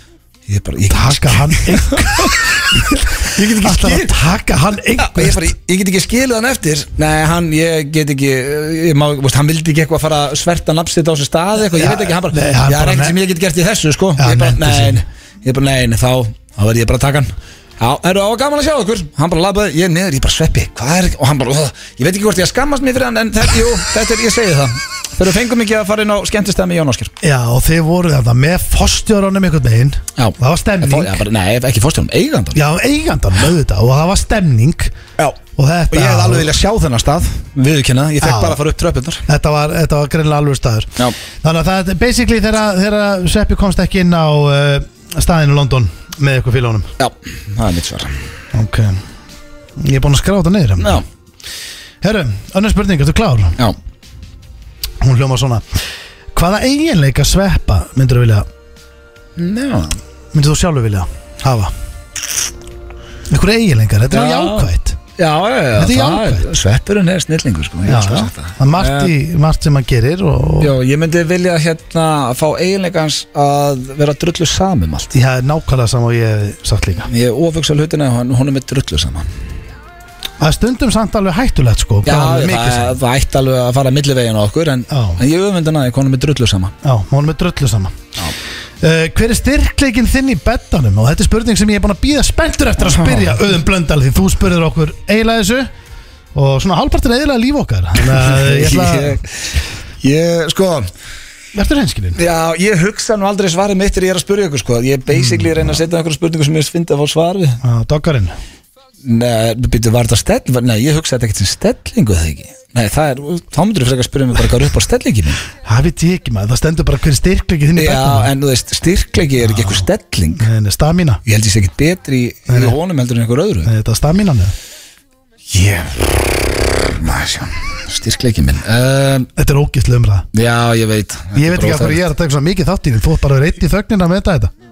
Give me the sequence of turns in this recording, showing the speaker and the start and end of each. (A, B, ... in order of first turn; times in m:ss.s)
0:00.5-0:04.2 A
0:00.9-0:05.5 B
0:05.0-0:27.1 A
0:11.7-0:13.2 B
0:14.2-0:15.0 B
0:27.2-0:31.2 B
0:30.2-0:32.6 A
0:32.5-0:34.9 B
0:35.6-0:36.5 B
0:35.9-0:39.2 A
0:38.2-0:38.6 B
0:39.3-0:46.9 B
0:47.0-0:48.2 A
0:48.5-0:49.0 B
0:49.8-0:51.0 B
0:50.8-0:51.0 A
0:52.0-0:53.6 B
0:55.0-0:55.8 B
0:56.3-0:58.4 B
0:59.4-1:00.0 A
1:00.3-1:01.7 B
1:03.3-1:05.0 B
1:04.1-1:09.1 A
1:05.8-1:06.4 B
1:07.8-1:10.7 B
1:10.6-1:15.1 A
1:15.1-1:17.1 B
1:17.1-1:19.3 A
1:20.4-1:23.0 B
1:22.0-1:26.7 A
1:24.9-1:25.2 B
1:26.8-1:28.0 B
1:28.8-1:35.7 B
1:32.9-1:33.3 A
1:36.3-1:39.2 B
1:38.0-1:40.9 A
1:41.5-1:42.2 B
1:42.2-1:47.6 A
1:45.1-1:45.8 B
1:47.6-1:48.3 B
1:49.0-1:55.4 A
1:55.6-1:58.3 B
1:57.8-2:00.5 A
1:59.4-1:59.8 B
2:00.4-2:01.2 B
2:01.2-2:03.7 A
2:02.5-2:02.8 B
2:03.6-2:04.5 B
2:05.5-2:09.3 A
2:09.4-2:10.3 B
2:10.3-2:12.1 A
2:11.3-2:14.5 B